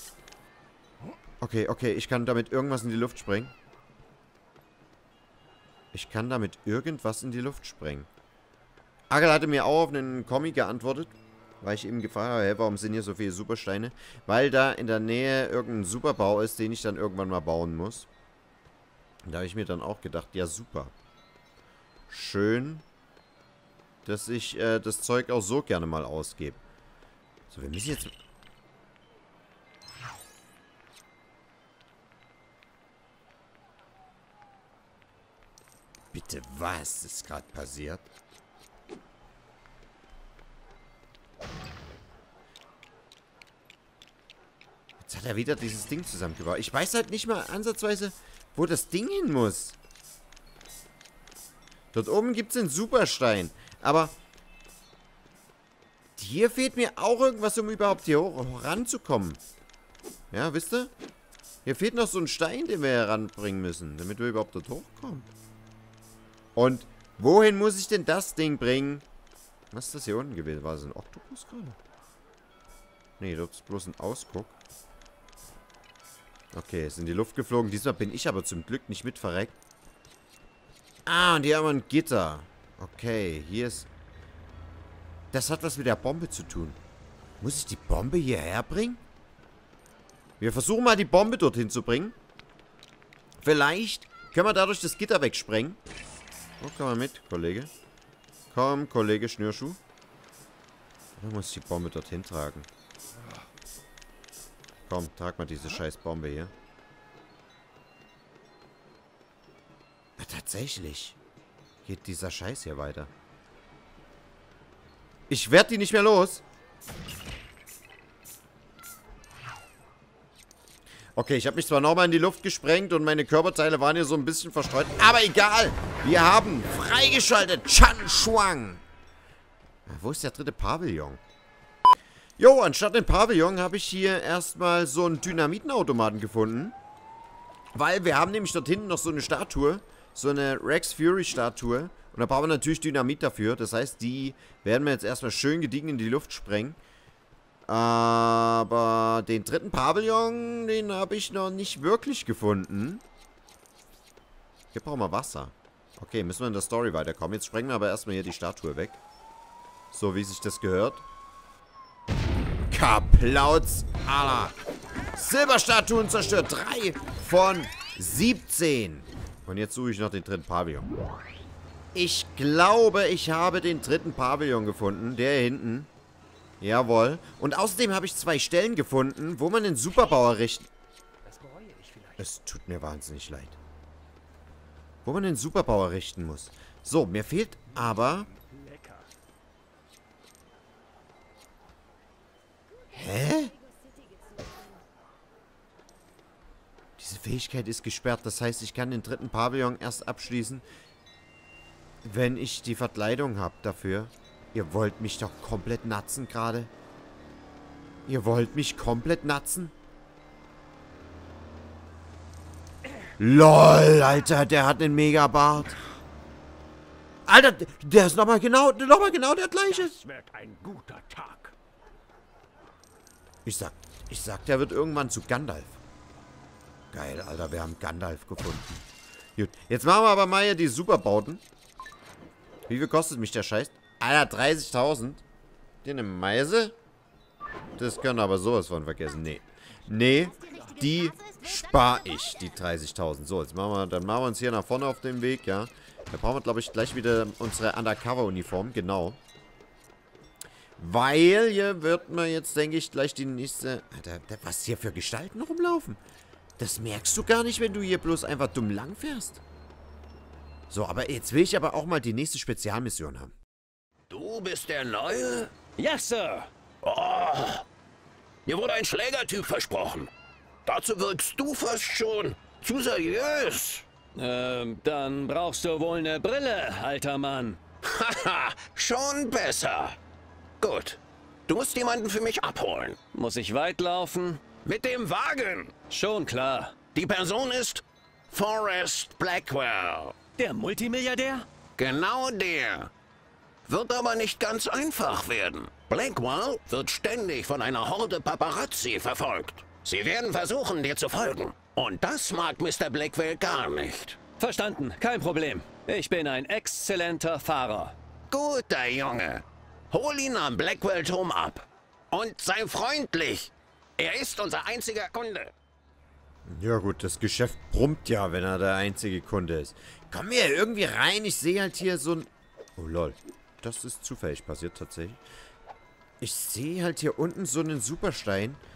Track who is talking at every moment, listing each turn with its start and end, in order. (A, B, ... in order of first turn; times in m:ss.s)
0:01.4-0:03.5 A
0:05.9-0:08.1 A
0:09.1-0:18.1 A
0:19.2-0:20.9 A
0:22.1-0:22.8 A
0:24.0-0:26.6 A
0:27.5-0:28.1 A
0:36.1-0:38.1 A
0:45.0-0:49.8 A
0:51.9-0:54.2 A
0:56.2-0:59.4 A
1:00.3-1:00.9 A
1:01.6-1:05.3 A
1:06.6-1:09.0 A
1:09.7-1:11.8 A
1:13.2-1:14.6 A
1:16.5-1:19.6 A
1:21.1-1:23.9 A
1:25.3-1:26.8 A
1:27.4-1:29.0 A
1:30.4-1:32.2 A
1:33.4-1:35.8 A
1:36.6-1:37.7 A
1:38.5-1:39.8 A
1:41.2-1:42.7 A
1:44.9-1:46.5 A
1:50.2-1:51.2 A
1:51.8-1:53.1 A
1:55.3-1:56.4 A
2:01.2-2:08.8 A
2:09.9-2:11.2 A
2:12.4-2:16.8 A
2:17.7-2:26.8 A
2:27.7-2:33.0 A
2:34.7-2:39.0 A
2:39.9-2:41.0 A
2:42.7-2:44.6 A
2:45.1-2:50.9 A
2:51.9-2:55.9 A
2:56.6-3:00.7 A
3:02.2-3:03.6 A
3:05.0-3:08.3 A
3:12.9-3:13.5 A
3:17.0-3:20.6 A
3:22.0-3:26.7 A
3:28.1-3:29.7 A
3:33.2-3:35.8 A
3:37.3-3:40.0 A
3:40.2-3:41.3 B
3:43.4-3:45.8 A
3:46.9-3:48.7 A
3:49.4-3:51.4 A
3:52.7-3:55.2 A
3:55.8-3:56.8 A
3:57.8-4:09.2 A
4:10.8-4:16.0 A
4:16.6-4:19.4 A
4:20.7-4:23.3 A
4:24.1-4:25.6 C
4:25.8-4:26.5 B
4:26.8-4:27.6 C
4:28.5-4:30.1 C
4:30.7-4:33.8 C
4:34.2-4:37.6 B
4:37.8-4:40.0 C
4:40.6-4:43.0 C
4:43.1-4:44.4 B
4:44.6-4:45.8 C
4:45.9-4:46.8 B
4:46.9-4:50.2 C
4:50.4-4:51.5 B
4:51.8-4:52.9 C
4:53.7-5:04.2 C
5:04.4-5:08.0 B
5:08.3-5:15.5 C
5:16.5-5:25.2 A
5:26.2-5:28.6 A